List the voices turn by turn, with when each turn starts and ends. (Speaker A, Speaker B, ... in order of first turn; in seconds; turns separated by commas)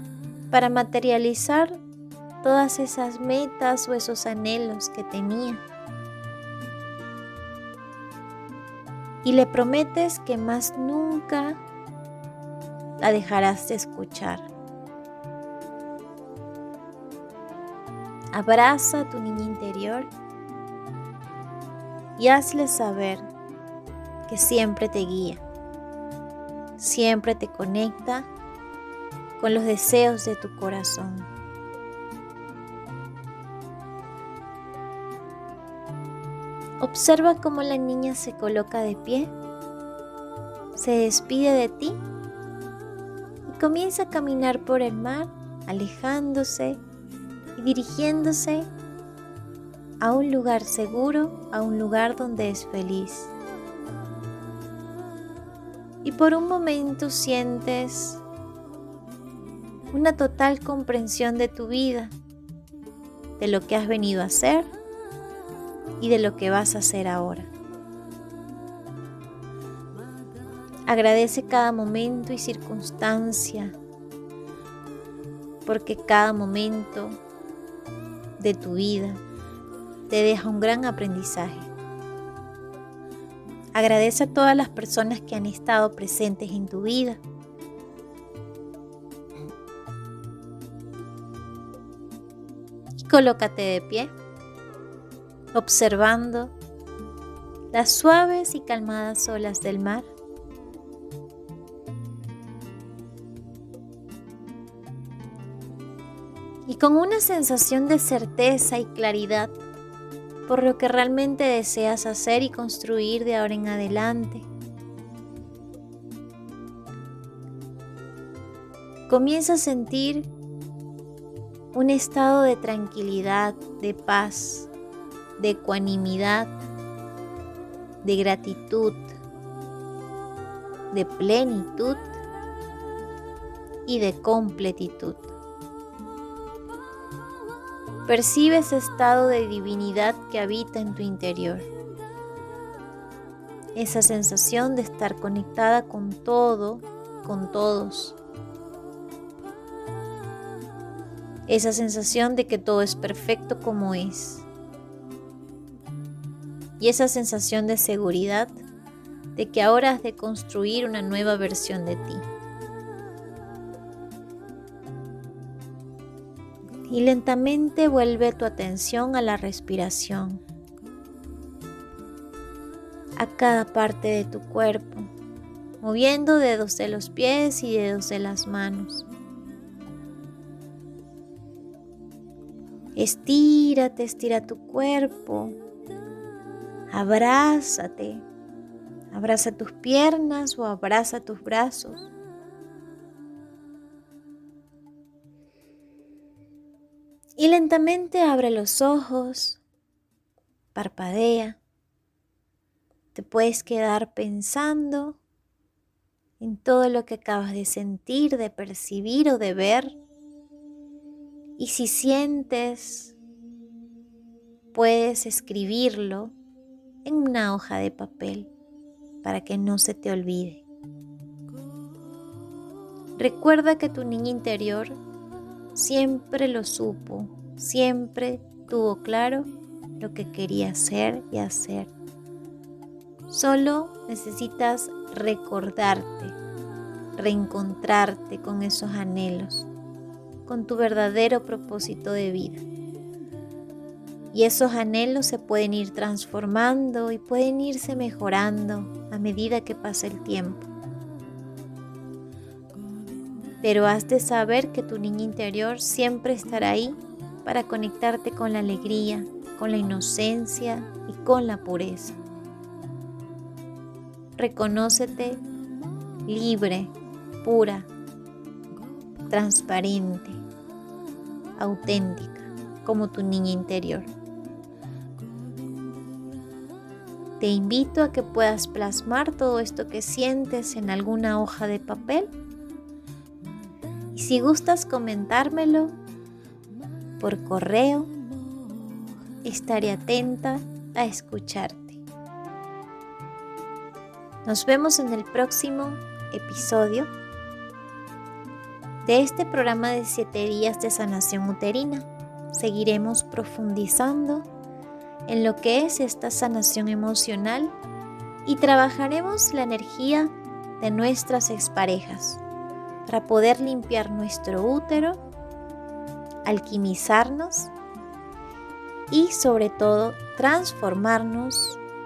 Speaker A: 0.5-1.8, Speaker A: 2.4-5.6, Speaker A: 9.2-11.6, Speaker A: 13.0-14.5, Speaker A: 18.3-20.1, Speaker A: 22.2-23.3, Speaker A: 24.3-25.4, Speaker A: 26.8-28.3, Speaker A: 29.4-31.3, Speaker A: 36.8-39.3, Speaker A: 40.8-42.0, Speaker A: 43.5-46.8, Speaker A: 47.6-48.7, Speaker A: 50.0-53.3, Speaker A: 56.0-58.2, Speaker A: 59.9-62.1, Speaker A: 63.4-64.7, Speaker A: 66.0-67.5, Speaker A: 70.9-73.8, Speaker A: 75.7-77.2, Speaker A: 78.4-79.2, Speaker A: 80.1-81.7, Speaker A: 83.8-87.2, Speaker A: 93.0-94.1, Speaker A: 95.5-96.5, Speaker A: 97.7-100.1, Speaker A: 106.7-109.6, Speaker A: 110.5-114.5, Speaker A: 119.1-120.3, Speaker A: 121.7-124.7, Speaker A: 125.4-126.6, Speaker A: 128.0-129.1, Speaker A: 130.9-132.2, Speaker A: 133.9-135.4, Speaker A: 138.1-141.7, Speaker A: 143.8-148.2, Speaker A: 151.5-154.5, Speaker A: 156.8-158.6, Speaker A: 159.4-162.3, Speaker A: 166.9-170.4, Speaker A: 173.2-175.1, Speaker A: 175.8-179.1, Speaker A: 183.0-185.6, Speaker A: 186.9-188.3, Speaker A: 189.1-192.1, Speaker A: 197.4-199.6, Speaker A: 200.8-201.6, Speaker A: 203.1-205.2, Speaker A: 206.4-210.0, Speaker A: 211.6-213.2, Speaker A: 214.7-216.3, Speaker A: 217.1-218.5, Speaker A: 219.2-220.6, Speaker A: 223.2-225.0, Speaker A: 225.8-229.5, Speaker A: 230.0-231.9, Speaker A: 233.3-236.4, Speaker A: 237.2-239.7, Speaker A: 240.5-242.6, Speaker A: 244.3-250.7, Speaker A: 253.6-262.2, Speaker A: 264.4-265.4, Speaker A: 266.3-267.9, Speaker A: 269.3-270.4, Speaker A: 271.6-274.1, Speaker A: 277.4-282.3, Speaker A: 284.1-286.0, Speaker A: 287.2-288.1, Speaker A: 289.4-292.0, Speaker A: 294.4-297.1, Speaker A: 299.1-304.5, Speaker A: 305.3-307.8, Speaker A: 308.5-312.4, Speaker A: 313.1-315.2, Speaker A: 316.4-317.7, Speaker A: 319.1-321.8